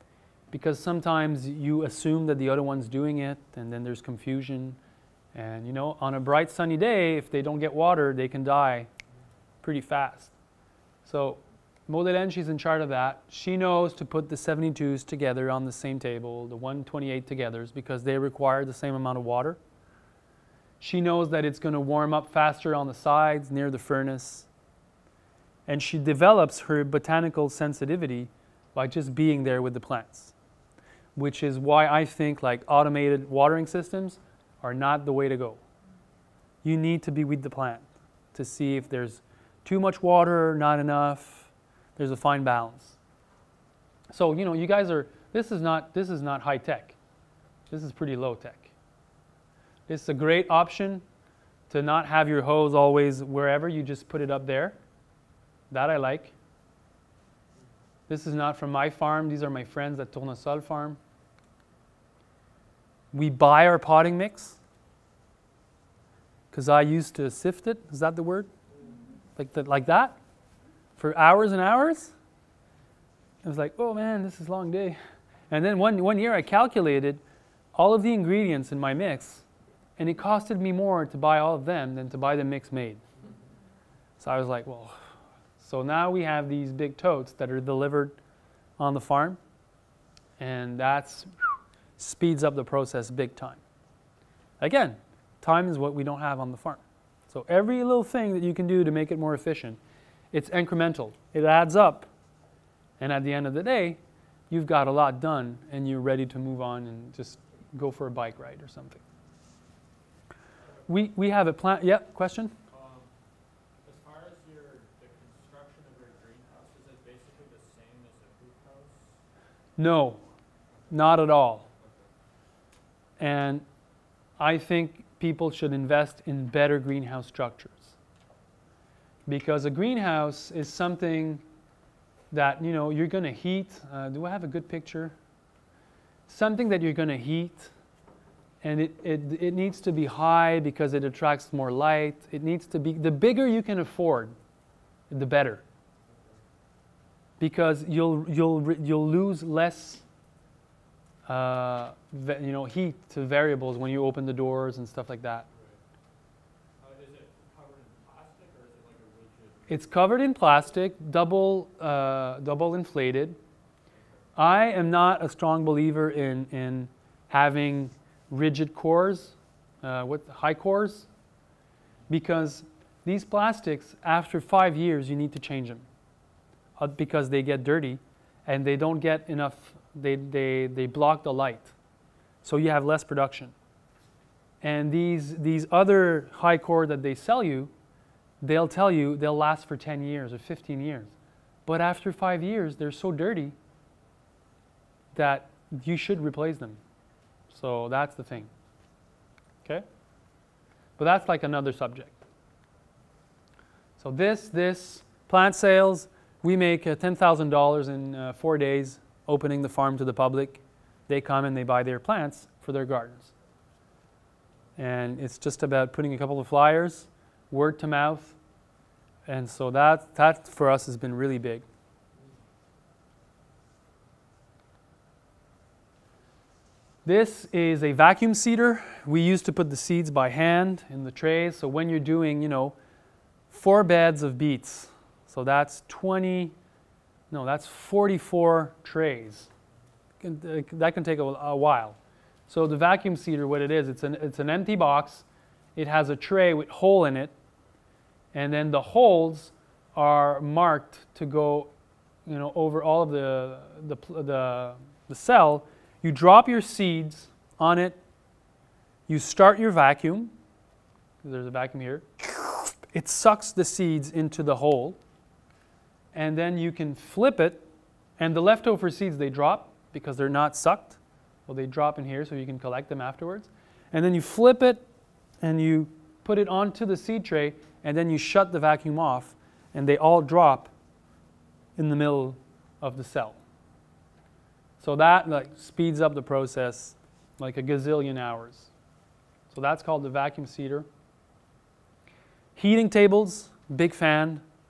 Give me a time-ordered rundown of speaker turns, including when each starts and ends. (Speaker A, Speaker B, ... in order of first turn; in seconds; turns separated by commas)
Speaker A: 0.5-4.8, Speaker A: 5.3-8.9, Speaker A: 9.6-10.3, Speaker A: 11.0-19.6, Speaker A: 20.8-24.5, Speaker A: 25.7-30.3, Speaker A: 31.1-35.6, Speaker A: 36.6-43.0, Speaker A: 44.1-47.0, Speaker A: 47.7-48.7, Speaker A: 49.9-51.0, Speaker A: 51.7-54.8, Speaker A: 55.7-56.3, Speaker A: 58.1-61.0, Speaker A: 63.1-64.6, Speaker A: 66.5-68.5, Speaker A: 69.4-70.2, Speaker A: 71.0-72.1, Speaker A: 73.4-75.0, Speaker A: 75.5-77.2, Speaker A: 77.7-79.4, Speaker A: 80.0-83.0, Speaker A: 84.2-85.0, Speaker A: 85.6-88.2, Speaker A: 88.8-89.4, Speaker A: 90.4-93.6, Speaker A: 94.6-99.8, Speaker A: 100.3-102.1, Speaker A: 103.0-104.0, Speaker A: 104.5-109.0, Speaker B: 110.6-111.0, Speaker A: 110.9-112.5, Speaker B: 112.7-113.1, Speaker B: 113.8-119.2, Speaker A: 119.8-120.2, Speaker A: 120.9-121.7, Speaker B: 121.7-122.1, Speaker A: 123.2-123.6, Speaker A: 124.4-127.9, Speaker A: 129.3-131.4, Speaker A: 132.3-135.1, Speaker A: 136.3-137.7, Speaker A: 138.6-144.3, Speaker A: 145.1-145.6, Speaker B: 146.1-146.4, Speaker A: 147.4-150.0, Speaker A: 151.2-155.5, Speaker B: 155.5-155.8, Speaker B: 156.8-159.7, Speaker A: 159.7-163.4, Speaker B: 163.9-164.3, Speaker A: 164.3-171.1, Speaker A: 172.1-175.8, Speaker A: 176.8-181.7, Speaker A: 182.4-183.5, Speaker A: 184.6-187.7, Speaker A: 188.4-191.1, Speaker A: 191.7-193.6, Speaker A: 195.1-196.8, Speaker A: 197.5-198.5, Speaker A: 201.0-202.2, Speaker A: 204.0-213.3, Speaker A: 214.8-218.3, Speaker A: 219.2-221.6, Speaker A: 227.0-232.8, Speaker A: 233.5-236.5, Speaker A: 237.3-239.5, Speaker A: 240.2-245.2, Speaker A: 245.8-247.3, Speaker A: 248.3-251.7, Speaker A: 252.2-258.0, Speaker A: 259.1-260.3, Speaker A: 261.2-265.0, Speaker A: 266.1-267.7, Speaker A: 268.2-274.8, Speaker A: 275.4-280.7, Speaker A: 281.8-283.4, Speaker A: 284.8-288.7, Speaker A: 289.5-290.9, Speaker A: 292.6-294.4